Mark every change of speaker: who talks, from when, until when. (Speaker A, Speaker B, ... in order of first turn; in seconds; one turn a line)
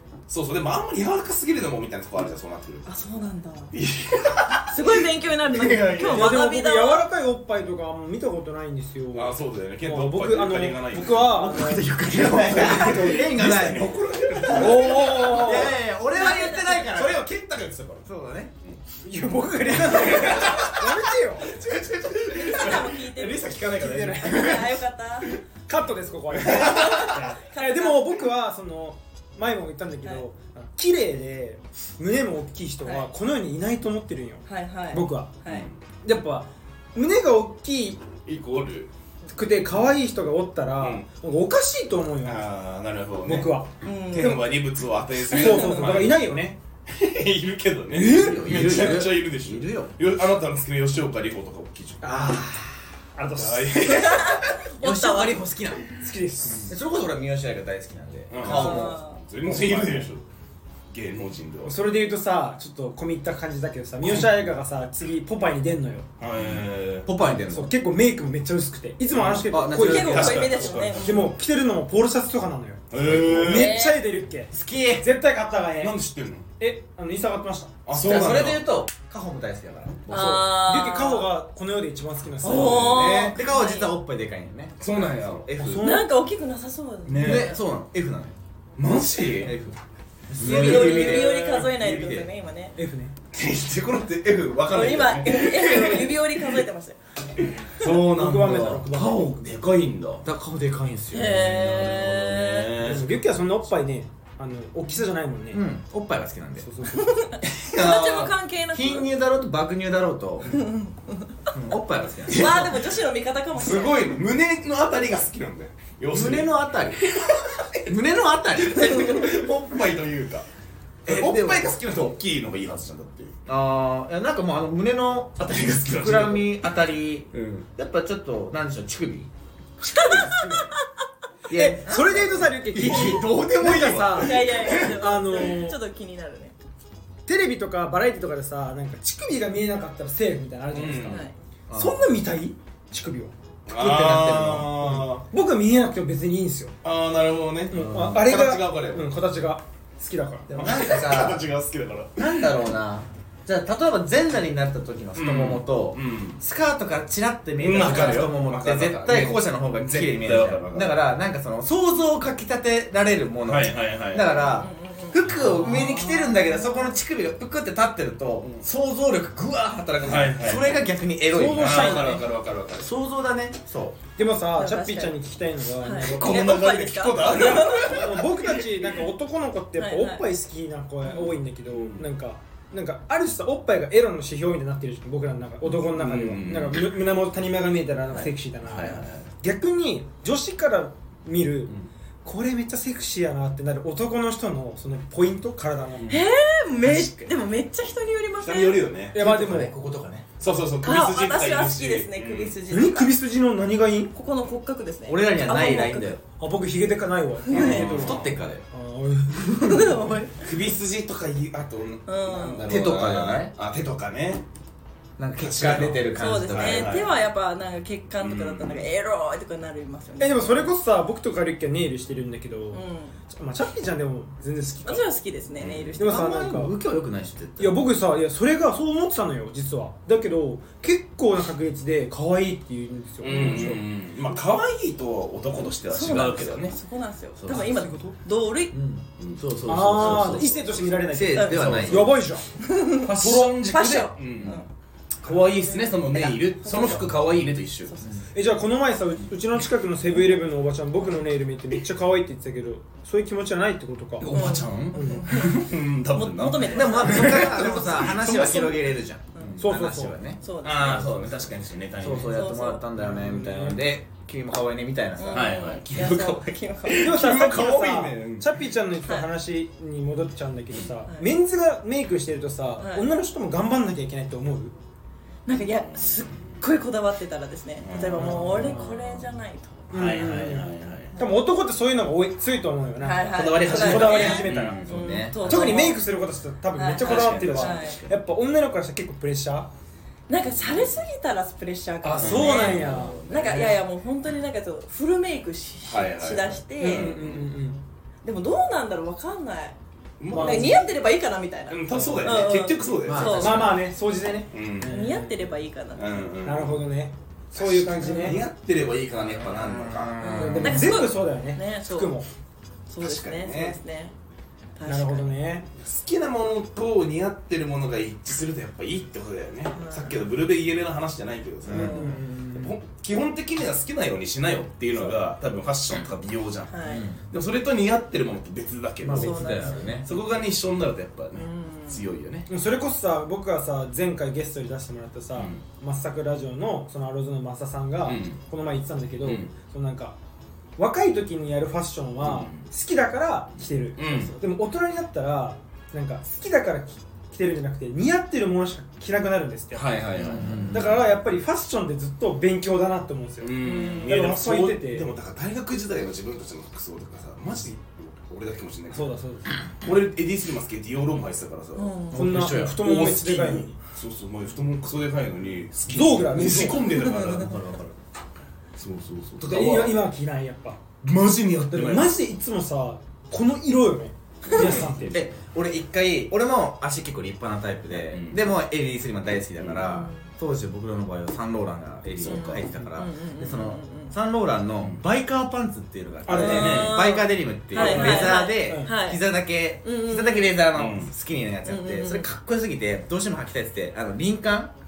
Speaker A: 0.3-2.9
Speaker B: 2.8-3.7
Speaker A: 3.7-6.4
Speaker B: 4.7-7.0
Speaker C: 6.1-13.3
Speaker A: 9.1-11.5
Speaker D: 11.3-17.2
Speaker A: 12.1-15.7
Speaker C: 14.4-15.8
Speaker B: 16.1-16.9
Speaker A: 16.8-18.1
Speaker D: 18.1-18.5
Speaker C: 19.0-21.6
Speaker A: 19.7-24.8
Speaker B: 22.2-23.5
Speaker C: 23.7-24.5
Speaker B: 24.2-25.4
Speaker C: 25.7-35.4
Speaker A: 26.3-27.2
Speaker B: 26.6-28.1
Speaker B: 34.5-35.7
Speaker A: 35.5-35.8
Speaker C: 36.0-38.1
Speaker A: 38.2-38.9
Speaker C: 39.3-42.5
Speaker A: 42.2-46.2
Speaker C: 43.2-44.6
Speaker B: 43.8-44.5
Speaker C: 45.3-46.6
Speaker B: 45.3-45.6
Speaker A: 46.9-52.4
Speaker C: 47.9-48.5
Speaker D: 48.0-49.9
Speaker C: 52.0-54.1
Speaker A: 53.3-54.4
Speaker B: 53.8-55.4
Speaker D: 54.6-55.9
Speaker C: 55.9-56.7
Speaker A: 56.4-56.7
Speaker D: 56.6-59.0
Speaker A: 58.3-60.2
Speaker B: 58.4-59.2
Speaker C: 59.4-60.1
Speaker A: 60.9-61.8
Speaker C: 61.6-66.1
Speaker A: 64.0-64.3
Speaker A: 66.2-67.1
Speaker D: 67.0-67.7
Speaker C: 67.5-70.4
Speaker A: 69.1-71.3
Speaker D: 69.4-70.7
Speaker B: 69.8-71.1
Speaker C: 71.0-76.0
Speaker A: 72.9-73.8
Speaker D: 73.0-73.7
Speaker B: 73.5-74.0
Speaker D: 74.5-75.1
Speaker A: 75.8-76.5
Speaker C: 76.6-77.8
Speaker A: 77.8-78.7
Speaker D: 77.9-80.5
Speaker B: 80.1-81.3
Speaker C: 80.1-83.0
Speaker B: 82.4-83.9
Speaker A: 82.4-83.3
Speaker D: 83.0-85.8
Speaker A: 84.8-85.6
Speaker C: 85.6-86.1
Speaker B: 85.8-87.6
Speaker A: 87.0-87.6
Speaker D: 87.2-88.3
Speaker A: 88.8-89.5
Speaker D: 89.4-89.8
Speaker D: 90.3-91.3
Speaker A: 90.4-92.3
Speaker B: 90.4-92.8
Speaker C: 92.8-93.1
Speaker A: 93.3-96.6
Speaker B: 94.7-97.0
Speaker A: 97.6-100.2
Speaker C: 98.0-99.3
Speaker D: 100.2-101.5
Speaker B: 101.1-102.7
Speaker A: 101.2-103.2
Speaker C: 102.8-105.6
Speaker D: 105.5-106.7
Speaker C: 106.6-107.2
Speaker B: 106.9-109.1
Speaker A: 107.6-108.3
Speaker D: 108.7-110.6
Speaker B: 110.5-111.3
Speaker D: 111.5-112.8
Speaker A: 112.3-112.8
Speaker B: 112.3-114.1
Speaker A: 113.5-117.8
Speaker D: 116.1-117.0
Speaker D: 117.8-119.5
Speaker A: 118.5-120.5
Speaker D: 121.0-121.7
Speaker A: 121.0-123.3
Speaker D: 123.5-129.3
Speaker A: 125.4-126.7
Speaker A: 127.3-127.7
Speaker B: 129.8-130.8
Speaker D: 129.8-130.7
Speaker D: 131.5-132.6
Speaker C: 131.5-135.8
Speaker A: 132.7-135.3
Speaker B: 134.2-136.5
Speaker C: 137.2-146.8
Speaker A: 140.7-141.2
Speaker B: 140.9-141.3
Speaker D: 141.7-142.2
Speaker A: 143.7-145.2
Speaker D: 143.8-144.7
Speaker A: 146.8-149.1
Speaker C: 147.7-150.5
Speaker D: 147.7-148.3
Speaker D: 150.5-151.4
Speaker A: 150.5-152.3
Speaker D: 152.2-172.2
Speaker A: 155.1-156.4
Speaker A: 157.6-161.0
Speaker B: 157.8-158.3
Speaker A: 163.4-164.3
Speaker B: 164.2-166.9
Speaker A: 165.4-165.8
Speaker A: 168.4-168.6
Speaker A: 170.0-170.8
Speaker C: 171.3-172.2
Speaker A: 171.4-172.9
Speaker D: 172.8-174.0
Speaker C: 174.2-176.4
Speaker B: 174.5-175.2
Speaker B: 175.8-178.1
Speaker A: 175.8-178.9
Speaker C: 177.3-191.7
Speaker B: 179.8-180.2
Speaker B: 181.0-181.3
Speaker A: 181.7-182.1
Speaker A: 185.7-186.9
Speaker A: 188.6-189.3
Speaker C: 192.2-196.1
Speaker B: 196.1-198.9
Speaker A: 196.9-197.2
Speaker A: 198.4-199.2
Speaker C: 199.1-199.7
Speaker D: 199.1-200.3
Speaker A: 200.4-202.6
Speaker B: 200.8-203.2
Speaker C: 202.7-204.1
Speaker B: 204.1-206.2
Speaker D: 205.1-206.2
Speaker C: 206.4-208.2
Speaker B: 207.5-208.1
Speaker A: 207.5-208.4
Speaker D: 207.5-208.6
Speaker C: 208.7-209.9
Speaker B: 209.6-210.3
Speaker A: 210.4-214.4
Speaker B: 212.1-212.7
Speaker D: 212.6-213.5
Speaker D: 215.2-217.0
Speaker A: 215.4-217.1
Speaker B: 216.2-220.7
Speaker A: 218.2-218.8
Speaker C: 220.2-225.1
Speaker B: 222.7-223.2
Speaker B: 224.8-226.3
Speaker A: 225.6-225.9
Speaker C: 226.0-226.7
Speaker D: 226.0-227.9
Speaker C: 227.6-233.8
Speaker A: 233.2-236.8
Speaker B: 235.9-238.8
Speaker D: 237.4-237.8
Speaker C: 237.4-238.2
Speaker D: 238.7-242.2
Speaker A: 239.2-240.6
Speaker C: 239.7-242.4
Speaker B: 241.3-241.8
Speaker A: 241.5-242.2
Speaker B: 242.6-244.7
Speaker A: 243.0-244.6
Speaker A: 245.2-247.9
Speaker B: 245.3-247.3
Speaker B: 247.8-248.2
Speaker C: 248.3-254.3
Speaker A: 254.2-258.8
Speaker B: 254.3-258.8
Speaker C: 254.9-255.3
Speaker D: 256.6-260.4
Speaker B: 259.3-259.7
Speaker C: 259.6-260.2
Speaker B: 260.4-261.3
Speaker A: 260.6-262.4
Speaker D: 262.0-265.6
Speaker B: 262.3-262.8
Speaker C: 263.0-263.8
Speaker B: 265.2-267.4
Speaker A: 265.3-268.6
Speaker C: 267.0-274.7
Speaker B: 272.8-273.1
Speaker B: 275.5-279.9
Speaker A: 275.8-276.5
Speaker A: 277.8-279.3
Speaker C: 278.2-278.9
Speaker A: 279.9-281.1
Speaker C: 279.9-284.8
Speaker B: 283.0-286.0
Speaker A: 283.3-285.9
Speaker D: 284.8-285.4
Speaker C: 285.4-289.7
Speaker B: 286.7-288.0
Speaker A: 287.0-288.1
Speaker B: 290.3-297.2
Speaker C: 292.0-293.8
Speaker A: 292.1-293.7
Speaker A: 295.8-297.5
Speaker C: 296.8-297.8
Speaker B: 298.2-299.8
Speaker A: 300.2-300.9
Speaker C: 300.3-300.8
Speaker B: 300.3-303.8
Speaker A: 301.7-303.8
Speaker D: 303.0-303.8
Speaker C: 303.3-305.5
Speaker A: 304.5-305.1
Speaker B: 304.9-306.3
Speaker A: 305.9-306.9
Speaker C: 306.4-308.4
Speaker A: 307.5-310.7
Speaker B: 308.0-308.4
Speaker D: 309.1-311.0
Speaker B: 310.2-312.1
Speaker C: 310.4-312.3
Speaker B: 312.9-314.1
Speaker A: 313.0-313.8
Speaker B: 314.8-315.4
Speaker C: 314.8-315.7
Speaker A: 315.7-332.5
Speaker B: 319.7-320.2
Speaker D: 321.7-322.0
Speaker C: 321.7-322.7
Speaker B: 326.7-327.1
Speaker D: 326.8-327.2
Speaker D: 329.0-330.1
Speaker B: 329.1-330.2
Speaker B: 331.3-332.0
Speaker C: 332.5-340.1
Speaker A: 335.3-335.6
Speaker A: 338.0-338.4
Speaker A: 339.2-339.5
Speaker C: 340.8-355.1
Speaker A: 342.2-342.6
Speaker A: 344.0-344.3
Speaker A: 349.7-351.0
Speaker D: 350.1-351.0
Speaker A: 353.4-359.1
Speaker B: 353.6-354.1
Speaker C: 358.9-359.5
Speaker A: 359.8-367.9
Speaker B: 361.8-362.5
Speaker C: 362.1-363.8
Speaker D: 362.2-362.7
Speaker C: 365.9-366.9
Speaker D: 367.3-367.9
Speaker A: 368.8-370.0
Speaker C: 369.5-370.8
Speaker A: 371.0-372.1
Speaker C: 371.7-375.2
Speaker A: 374.5-375.2
Speaker D: 374.5-394.7
Speaker A: 377.9-378.5
Speaker A: 379.6-380.0
Speaker B: 379.9-380.3
Speaker A: 382.1-382.7
Speaker B: 382.2-384.1
Speaker C: 386.2-386.9
Speaker A: 386.3-387.0
Speaker B: 386.4-389.2
Speaker A: 387.7-388.3
Speaker C: 387.8-388.9
Speaker B: 389.8-390.7
Speaker A: 390.7-391.1
Speaker B: 391.6-392.3